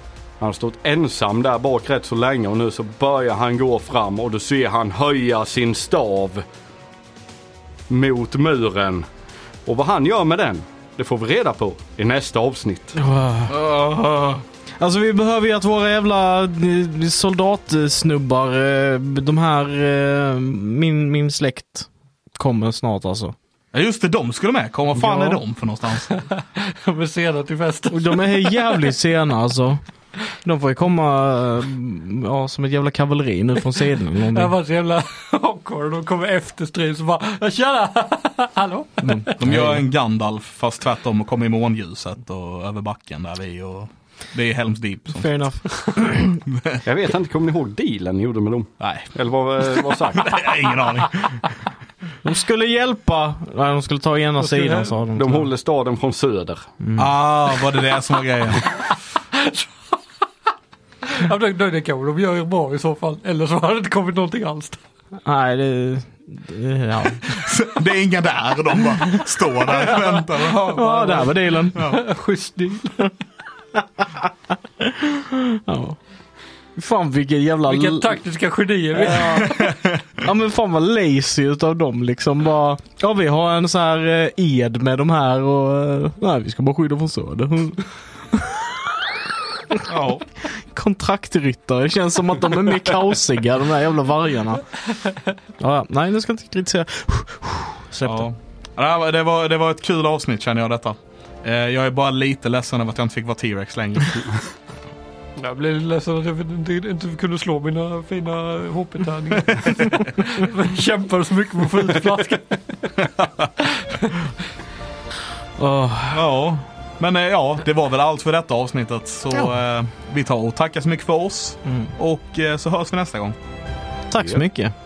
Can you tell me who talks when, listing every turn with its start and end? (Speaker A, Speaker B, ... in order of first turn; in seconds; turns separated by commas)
Speaker A: 0.4-6.4, Speaker A: 7.9-9.1, Speaker A: 9.7-13.0, Speaker B: 12.9-13.6, Speaker C: 13.5-14.4, Speaker B: 14.8-23.3, Speaker C: 23.7-26.1, Speaker B: 25.0-25.4, Speaker D: 26.1-28.7, Speaker B: 27.9-29.8, Speaker B: 30.4-34.5, Speaker D: 34.3-39.4, Speaker B: 39.0-39.8, Speaker C: 39.4-45.3, Speaker B: 45.1-46.4, Speaker C: 46.5-46.8, Speaker A: 46.8-50.2, Speaker C: 48.8-49.1, Speaker C: 49.7-51.5, Speaker B: 52.2-55.4, Speaker D: 54.4-55.0, Speaker A: 55.1-56.7, Speaker B: 56.8-57.1, Speaker C: 57.0-58.7, Speaker D: 59.3-59.8, Speaker D: 61.0-64.8, Speaker B: 65.2-67.3, Speaker C: 67.2-72.0, Speaker D: 70.0-73.1, Speaker B: 70.7-71.9, Speaker B: 74.0-74.3, Speaker B: 74.8-76.0, Speaker B: 76.8-78.2, Speaker D: 77.7-79.6, Speaker B: 79.0-89.0, Speaker C: 79.3-79.9, Speaker C: 89.9-90.2, Speaker B: 90.7-94.8, Speaker B: 95.6-98.3, Speaker C: 98.0-104.4, Speaker D: 105.4-112.9, Speaker D: 113.6-114.3, Speaker B: 115.6-116.3, Speaker C: 116.1-123.3, Speaker B: 124.1-124.7